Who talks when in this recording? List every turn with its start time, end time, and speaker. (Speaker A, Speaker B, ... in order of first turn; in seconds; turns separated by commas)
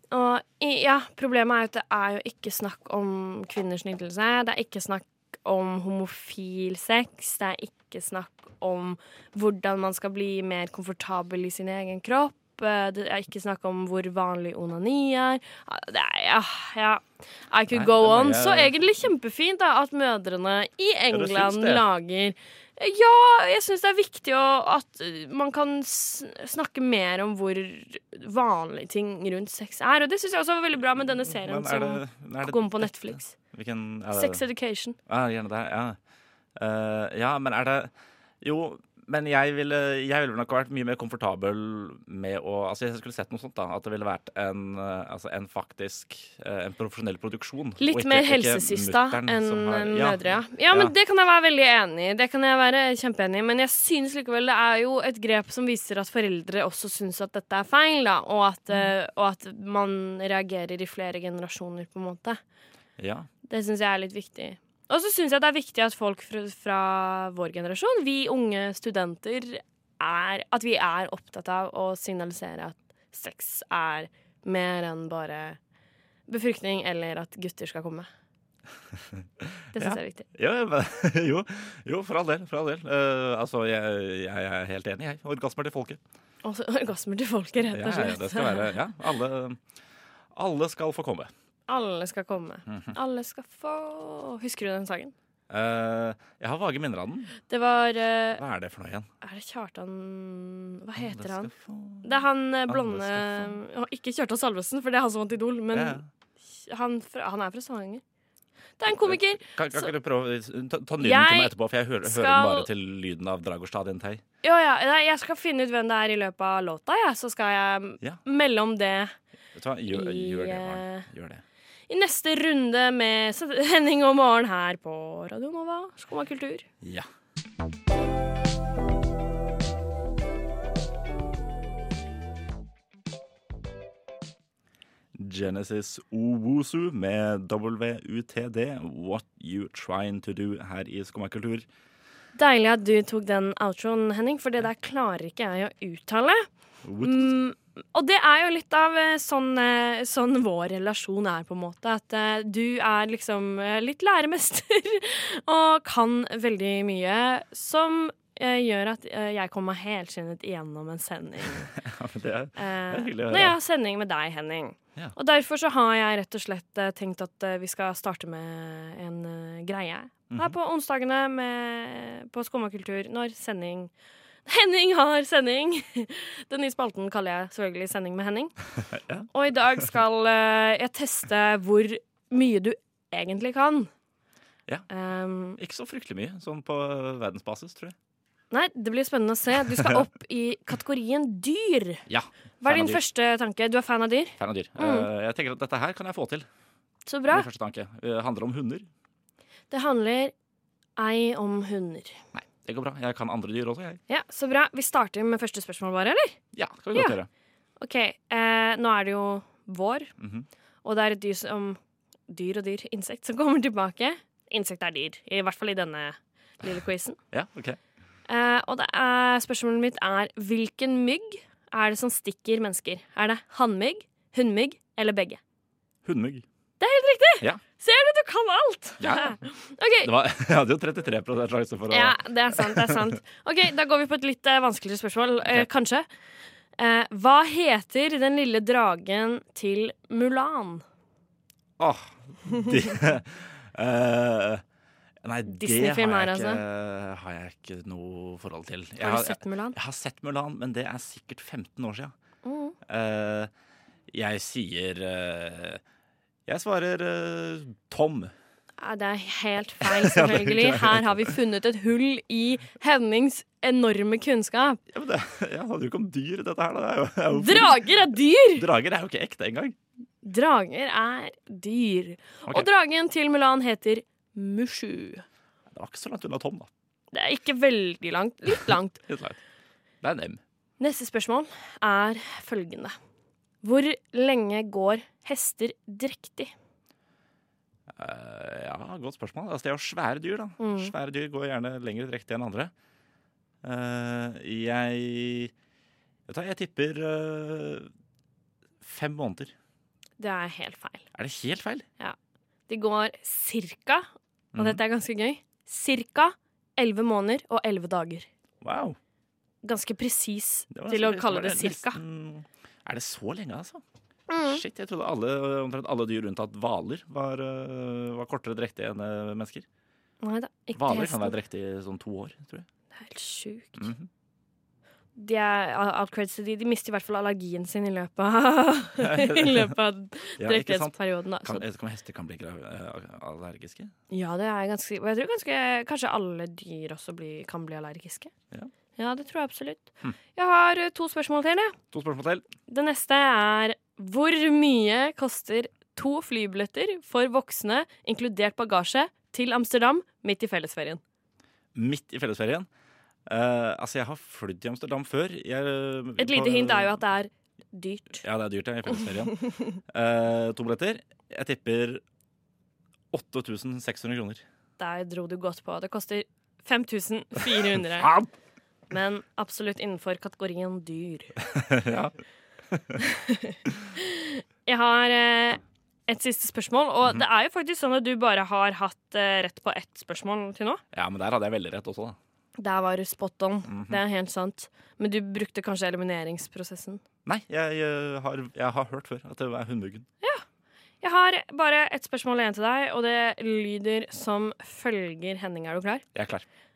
Speaker A: 0.1-33.3, Speaker B: 17.7-18.7, Speaker B: 21.1-21.8, Speaker B: 31.0-34.4, Speaker A: 34.1-35.0, Speaker B: 35.1-36.0, Speaker B: 36.6-50.9, Speaker A: 47.8-62.4, Speaker B: 63.0-63.3, Speaker A: 63.5-75.6, Speaker A: 76.3-78.1, Speaker B: 78.9-86.0, Speaker A: 79.7-80.2, Speaker A: 86.4-88.8, Speaker B: 87.7-89.6, Speaker B: 90.3-91.3, Speaker A: 91.7-95.1, Speaker B: 92.7-92.9, Speaker B: 95.5-97.3, Speaker A: 97.5-98.4, Speaker B: 98.4-99.1, Speaker A: 99.2-101.5, Speaker B: 101.0-103.6, Speaker A: 102.0-108.0, Speaker B: 105.7-106.1, Speaker A: 108.8-109.9, Speaker B: 108.8-114.2, Speaker A: 111.0-112.7, Speaker A: 114.4-119.1, Speaker B: 119.5-121.4, Speaker A: 119.9-121.1, Speaker A: 121.9-126.7, Speaker B: 126.8-127.1, Speaker B: 135.1-141.7, Speaker A: 142.3-146.5, Speaker B: 146.8-147.3, Speaker A: 147.0-161.7, Speaker B: 161.7-163.5, Speaker A: 162.6-173.9, Speaker B: 170.3-170.6, Speaker A: 174.4-178.5, Speaker B: 178.9-179.8, Speaker A: 179.3-183.9, Speaker A: 184.9-185.6, Speaker B: 185.6-187.9, Speaker A: 188.5-192.0, Speaker B: 192.1-193.0, Speaker A: 192.6-195.1, Speaker B: 194.4-196.5, Speaker A: 197.1-197.5, Speaker B: 197.3-198.9, Speaker A: 199.7-200.3, Speaker A: 201.0-202.2, Speaker B: 202.3-204.0, Speaker A: 204.1-206.4, Speaker B: 206.5-207.3, Speaker A: 207.8-210.1, Speaker B: 210.2-210.5, Speaker A: 210.8-217.2, Speaker B: 217.3-217.8, Speaker A: 218.3-225.4, Speaker B: 226.0-226.4, Speaker A: 226.8-230.1, Speaker B: 229.0-229.4, Speaker B: 230.0-233.0, Speaker A: 231.9-236.1, Speaker B: 235.4-235.7, Speaker A: 236.8-240.8, Speaker B: 241.8-244.6, Speaker B: 245.2-252.1, Speaker A: 245.5-246.6, Speaker A: 249.0-249.8, Speaker A: 252.4-252.8, Speaker B: 252.8-253.5, Speaker B: 254.1-255.8, Speaker B: 256.5-258.3, Speaker A: 258.8-264.8, Speaker B: 259.8-261.3, Speaker B: 264.9-267.9, Speaker A: 267.3-268.6, Speaker B: 268.5-269.8, Speaker A: 270.2-275.2, Speaker B: 275.7-276.7, Speaker A: 277.1-279.0, Speaker B: 278.5-279.4, Speaker B: 280.0-280.4, Speaker A: 280.8-282.9, Speaker A: 283.6-286.5, Speaker B: 287.9-292.7, Speaker A: 290.6-290.9, Speaker B: 293.6-295.5, Speaker B: 296.3-297.9, Speaker B: 298.8-299.5, Speaker A: 300.2-301.1, Speaker B: 301.1-301.9, Speaker A: 302.7-308.3, Speaker B: 304.5-304.8, Speaker B: 308.6-309.0, Speaker A: 309.6-312.0, Speaker B: 310.7-313.8, Speaker A: 314.3-314.6, Speaker B: 314.4-319.6, Speaker A: 320.2-321.3, Speaker B: 320.7-322.7, Speaker A: 322.9-323.9, Speaker B: 323.8-324.1, Speaker A: 325.1-331.6, Speaker B: 329.0-329.8, Speaker B: 330.4-333.9, Speaker A: 334.1-338.3, Speaker A: 338.9-341.8, Speaker B: 341.9-342.4, Speaker A: 342.7-351.0, Speaker B: 351.7-352.7, Speaker B: 353.3-356.9, Speaker A: 356.2-358.2, Speaker B: 358.2-362.0, Speaker B: 363.1-364.4, Speaker A: 364.8-368.1, Speaker B: 367.5-368.3, Speaker A: 368.9-371.4, Speaker B: 371.5-372.1, Speaker B: 372.7-373.0, Speaker A: 373.0-380.8, Speaker B: 380.9-382.2, Speaker A: 382.6-387.0, Speaker B: 383.7-384.0, Speaker B: 387.2-390.1, Speaker A: 391.0-396.0, Speaker B: 396.1-396.4